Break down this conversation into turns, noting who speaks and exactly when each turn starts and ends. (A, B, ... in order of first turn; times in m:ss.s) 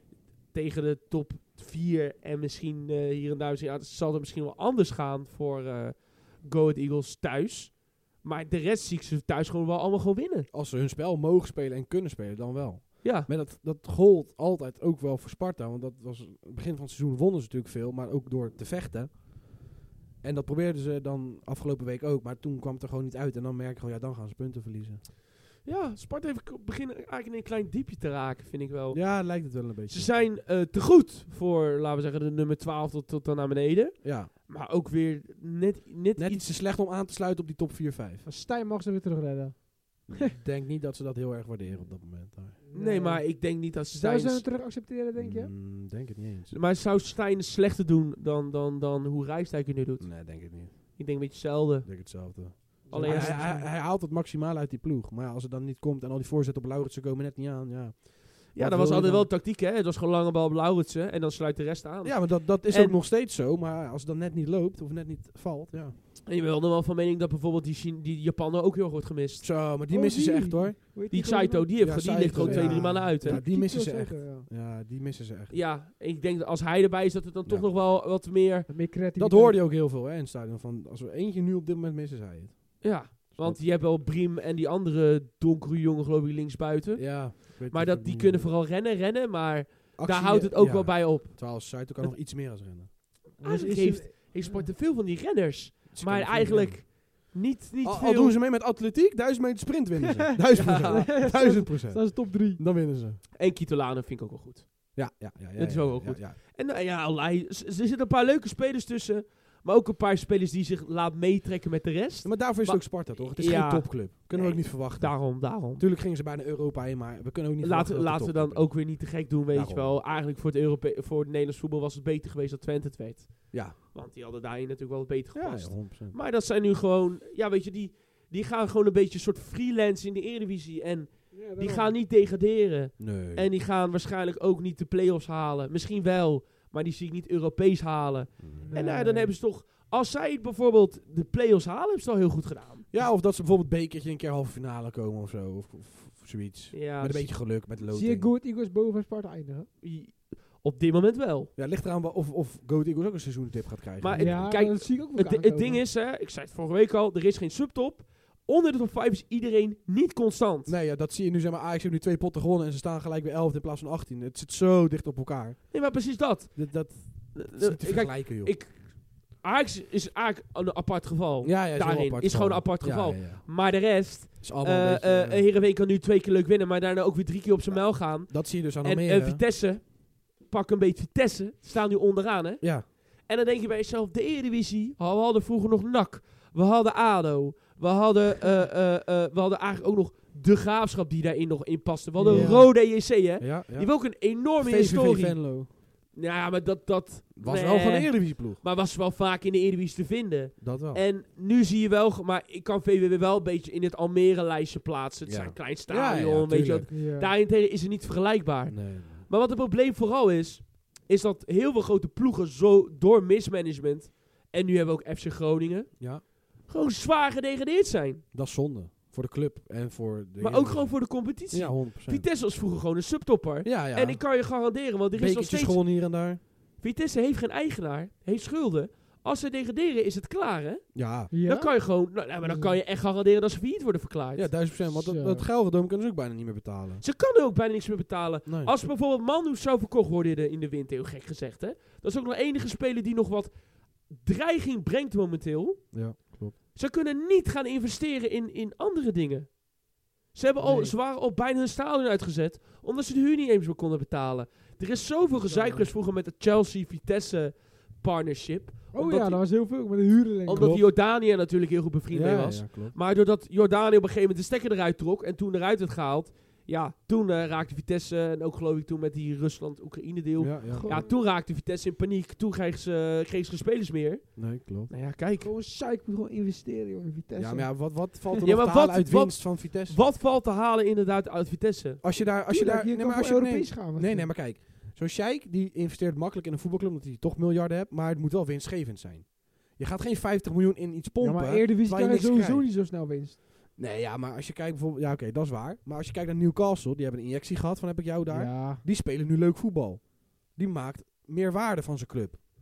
0:00.5-0:10.5 A
0:10.5-0:19.6 B
0:13.0-0:13.3 A
0:20.2-0:25.0 B
0:25.6-0:36.5 A
0:28.9-0:30.1 B
0:34.0-0:34.3 B
0:36.2-0:38.2 B
0:38.2-0:40.3 C
0:40.1-0:42.6 B
0:42.6-0:45.5 C
0:42.7-0:44.5 A
0:45.1-0:46.6 B
0:46.5-0:52.4 A
0:50.0-0:51.1 B
0:51.8-0:59.3 B
0:52.9-0:53.7 C
0:52.9-0:53.6 A
0:58.5-1:03.0 A
1:02.0-1:06.0 B
1:06.2-1:09.5 A
1:09.4-1:10.8 B
1:09.9-1:14.5 C
1:11.1-1:13.4 A
1:11.8-1:15.5 B
1:15.5-1:18.7 A
1:18.7-1:19.6 C
1:19.2-1:23.7 B
1:22.8-1:32.2 A
1:27.0-1:28.5 B
1:30.0-1:33.0 B
1:33.4-1:34.7 C
1:33.4-1:38.4 A
1:35.9-1:36.9 B
1:37.8-1:43.2 B
1:40.2-1:42.6 C
1:40.5-1:41.3 A
1:43.4-1:55.8 A
1:44.9-1:46.4 B
1:52.2-2:00.0 B
1:57.6-2:22.9 A
2:05.3-2:06.2 B
2:11.3-2:11.9 C
2:13.0-2:13.5 B
2:18.4-2:18.7 B
2:18.6-2:19.3 C
2:22.9-2:28.3 B
2:26.7-2:27.4 A
2:27.9-2:29.7 C
2:29.8-2:31.5 A
2:31.6-2:34.5 B
2:34.0-2:40.7 A
2:34.1-2:35.8 C
2:40.6-2:48.6 B
2:45.7-3:38.2 A
2:51.4-2:55.4 B
2:57.7-2:59.4 B
3:02.6-3:02.9 B
3:12.2-3:12.7 C
3:12.3-3:15.7 B
3:17.3-3:18.6 B
3:20.6-3:21.0 B
3:25.2-3:26.9 B
3:26.9-3:27.3 C
3:28.7-3:29.3 B
3:36.0-3:36.2 B
3:38.3-3:42.3 B
3:40.4-3:45.9 A
3:43.6-3:44.4 B
3:45.1-3:46.4 B
3:46.8-3:54.5 A
3:50.9-3:51.3 B
3:51.3-3:52.7 C
3:54.3-3:57.0 B
3:54.8-3:55.4 C
3:57.0-4:06.2 A
3:58.4-3:58.7 B
4:05.9-4:06.6 B
4:06.7-4:09.6 A
4:10.3-4:19.4 A
4:10.6-4:11.0 C
4:15.5-4:15.9 C
4:18.9-4:20.8 C
4:20.4-4:34.3 A
4:20.6-4:20.9 B
4:22.1-4:23.0 B
4:30.4-4:31.1 B
4:30.7-4:31.0 C
4:34.4-4:34.9 B
4:34.9-4:35.5 A
4:35.4-4:38.4 C
4:37.3-4:40.0 B
4:38.4-4:42.0 A
4:42.0-4:52.7 B
4:42.5-4:44.3 C
4:51.2-4:53.4 C
4:53.8-5:02.4 B
4:58.3-4:58.8 C